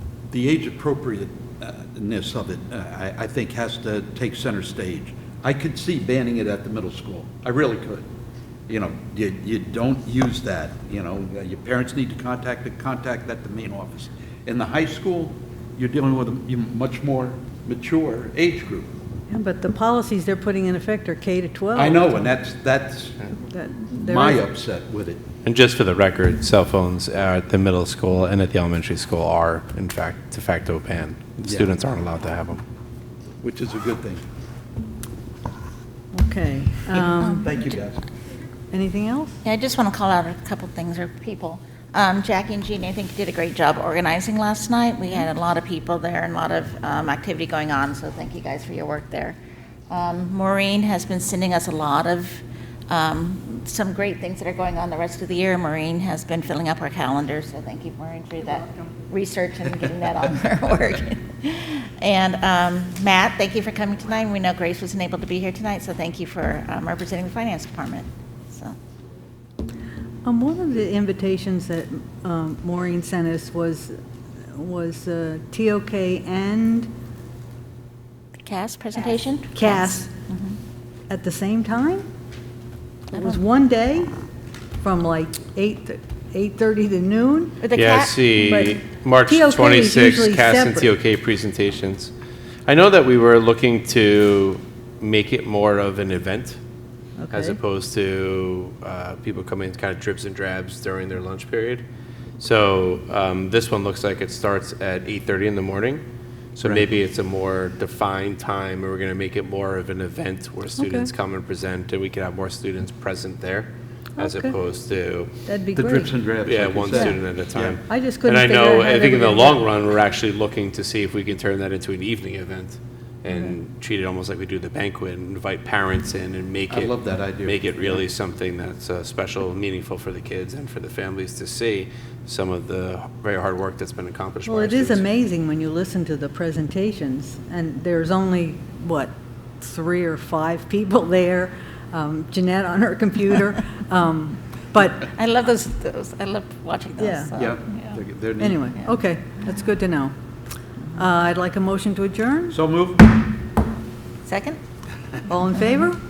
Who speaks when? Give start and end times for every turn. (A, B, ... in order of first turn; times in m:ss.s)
0:00.3-0:08.1 A
0:08.7-0:18.9 A
0:19.3-0:22.3 B
0:21.8-0:23.3 A
0:23.4-0:24.4 B
0:24.0-0:25.2 A
0:25.4-0:32.6 C
0:31.4-0:31.7 A
0:33.4-0:34.2 A
0:36.1-0:37.5 B
0:37.2-0:38.0 A
0:37.2-0:37.6 D
0:38.7-0:39.4 B
0:39.4-0:49.4 D
0:49.9-1:08.8 D
0:58.5-0:58.9 B
1:10.2-1:14.0 B
1:14.5-1:16.9 B
1:18.4-1:20.6 D
1:19.6-1:20.1 B
1:21.1-1:22.1 B
1:23.1-1:24.2 B
1:23.1-1:23.4 D
1:24.8-1:27.6 B
1:27.6-1:28.6 D
1:27.7-1:32.1 C
1:28.4-1:30.9 B
1:32.7-1:36.6 C
1:37.2-1:37.6 B
1:37.3-1:41.8 C
1:42.4-1:46.0 C
1:46.6-1:55.3 C
1:50.8-1:51.1 B
1:54.2-1:54.6 B
1:55.5-1:56.2 B
1:55.7-1:57.8 A
1:56.4-2:06.9 C
1:57.9-1:59.6 B
2:06.7-2:08.0 A
2:07.4-2:15.0 C
2:14.5-2:25.1 B
2:25.1-2:27.9 D
2:27.0-2:27.4 B
2:27.4-2:28.7 A
2:28.4-2:30.1 B
2:30.9-2:32.6 B
2:32.5-2:33.2 A
2:34.2-2:34.6 D
2:35.3-2:36.0 B